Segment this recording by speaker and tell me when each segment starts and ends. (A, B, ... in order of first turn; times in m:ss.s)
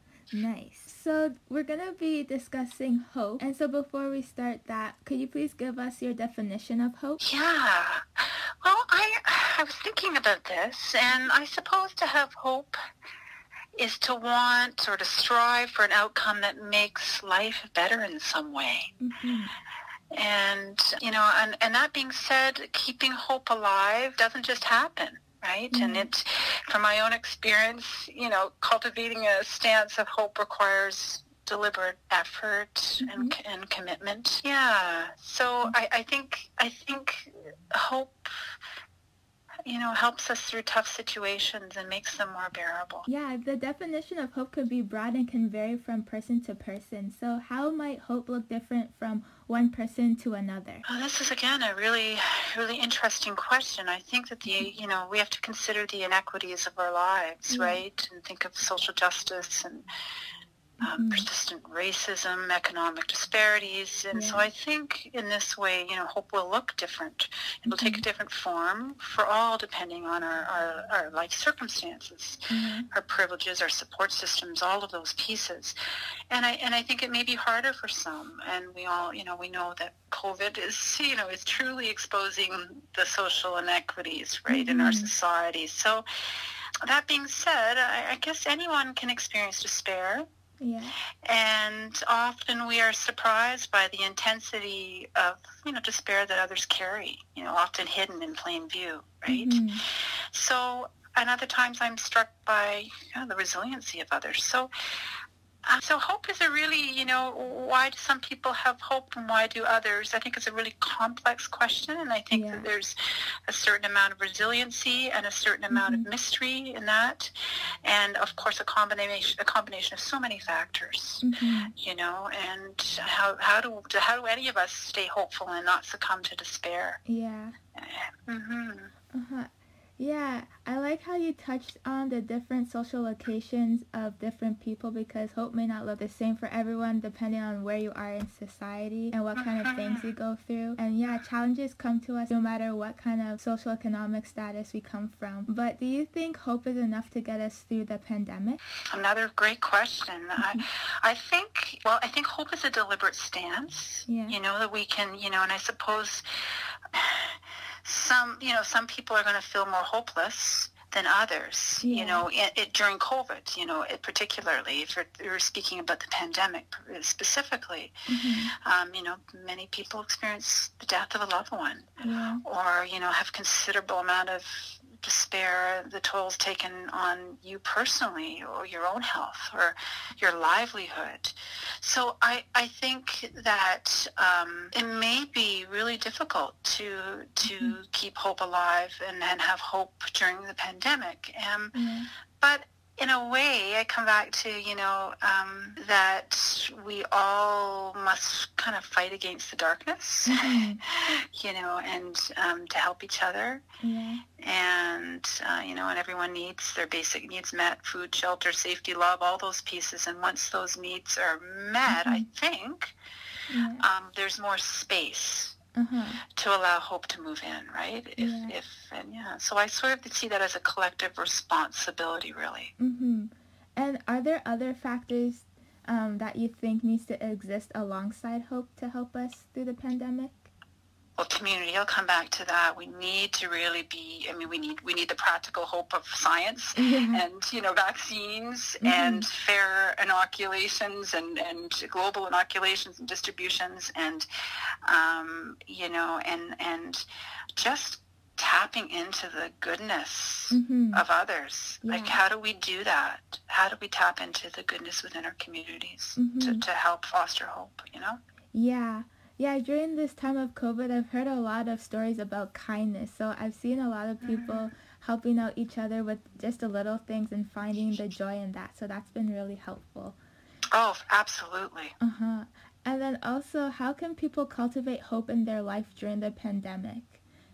0:00.3-0:07.2 A
0:07.2-0:12.8 B
0:13.8-0:18.9 B
0:19.0-0:19.5 A
0:20.1-0:38.3 B
0:25.7-0:26.1 A
0:33.0-0:33.4 A
0:39.6-0:43.1 B
0:43.0-0:50.8 A
0:50.8-0:59.8 B
0:57.5-0:57.8 A
1:00.8-1:12.4 B
1:00.9-1:01.3 A
1:04.1-1:04.4 A
1:07.7-1:08.0 A
1:12.5-1:12.8 A
1:12.9-1:15.7 B
1:16.3-1:26.0 B
1:24.5-1:25.1 A
1:26.8-1:30.2 B
1:30.6-1:30.9 A
1:31.2-1:39.6 B
1:39.3-1:39.8 A
1:40.3-1:44.7 B
1:45.6-1:53.0 B
1:52.3-1:52.6 A
1:53.5-1:57.3 B
1:55.7-1:56.1 A
1:57.8-2:01.2 B
2:01.2-2:01.7 A
2:01.8-2:07.0 B
2:07.0-2:07.5 A
2:07.8-2:08.9 B
2:09.1-2:28.6 A
2:19.4-2:20.0 B
2:28.9-2:36.2 B
2:30.4-2:30.6 A
2:34.1-2:34.4 A
2:36.9-2:47.9 B
2:41.8-2:42.2 A
2:48.1-2:48.5 A
2:48.6-3:11.7 B
2:52.0-2:52.4 A
3:11.7-3:12.1 A
3:12.4-3:20.6 B
3:20.3-3:20.8 A
3:21.3-3:23.6 B
3:23.8-3:24.2 A
3:24.4-3:32.9 B
3:31.9-3:32.2 A
3:33.5-3:33.8 A
3:33.8-3:35.6 B
3:35.8-3:36.2 A
3:36.4-3:42.7 B
3:38.2-3:38.6 A
3:42.8-3:50.5 A
3:51.2-4:04.3 B
3:56.7-3:57.2 A
3:58.8-3:59.2 A
4:04.8-4:07.0 B
4:07.6-4:18.2 B
4:10.5-4:11.0 A
4:11.8-4:12.2 A
4:16.2-4:16.6 A
4:18.5-4:30.2 A
4:24.2-4:24.7 B
4:30.7-4:31.9 B
4:32.0-4:37.2 A